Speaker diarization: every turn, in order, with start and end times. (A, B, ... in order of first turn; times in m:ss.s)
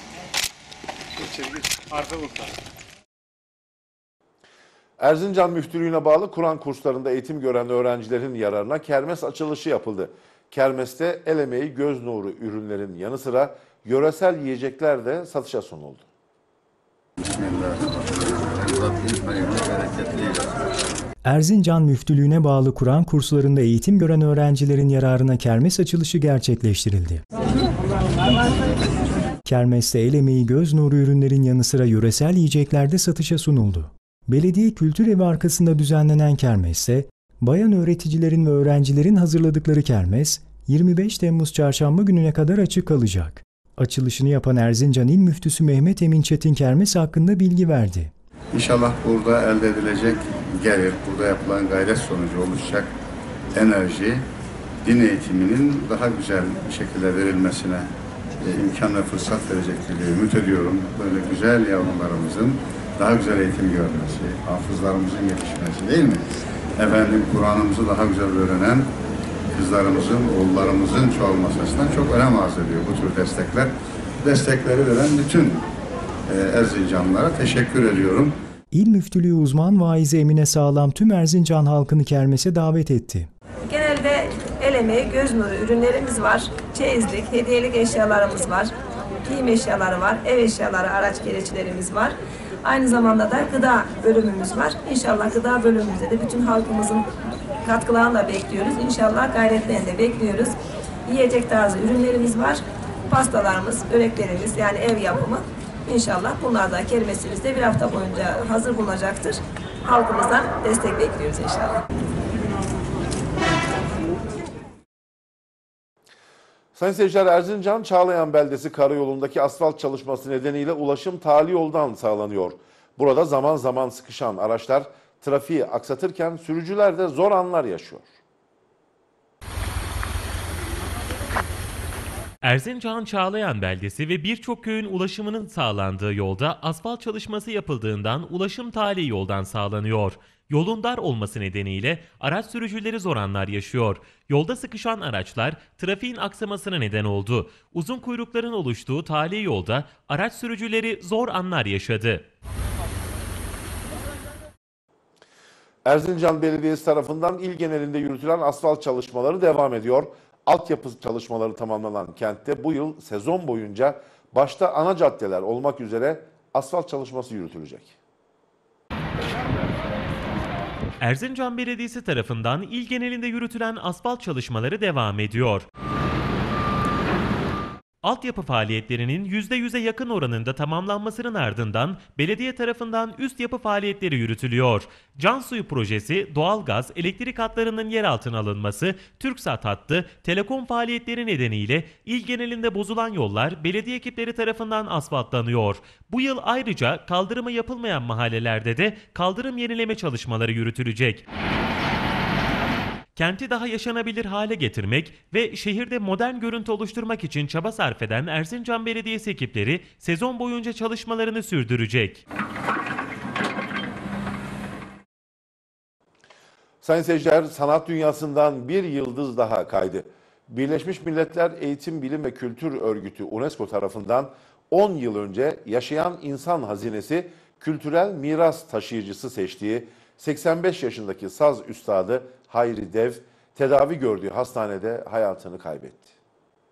0:05.0-0:16.1 A
0:17.2-0:20.7 B
0:21.2-0:27.2 C
0:29.4-0:48.1 C
0:48.5-0:52.9 B
0:53.6-0:54.3 B
0:54.8-1:06.3 B
1:06.8-1:08.9 B
1:09.5-1:15.6 B
1:16.3-1:18.4 B
1:18.7-1:23.3 C
1:23.7-1:28.7 D
1:29.2-1:37.0 D
1:37.6-1:51.8 D
1:56.8-2:08.1 A
2:12.4-2:32.3 E
2:35.8-2:47.9 A
2:51.0-2:55.7 E
2:58.0-3:21.2 E
3:23.2-3:32.2 E
3:36.8-3:56.1 A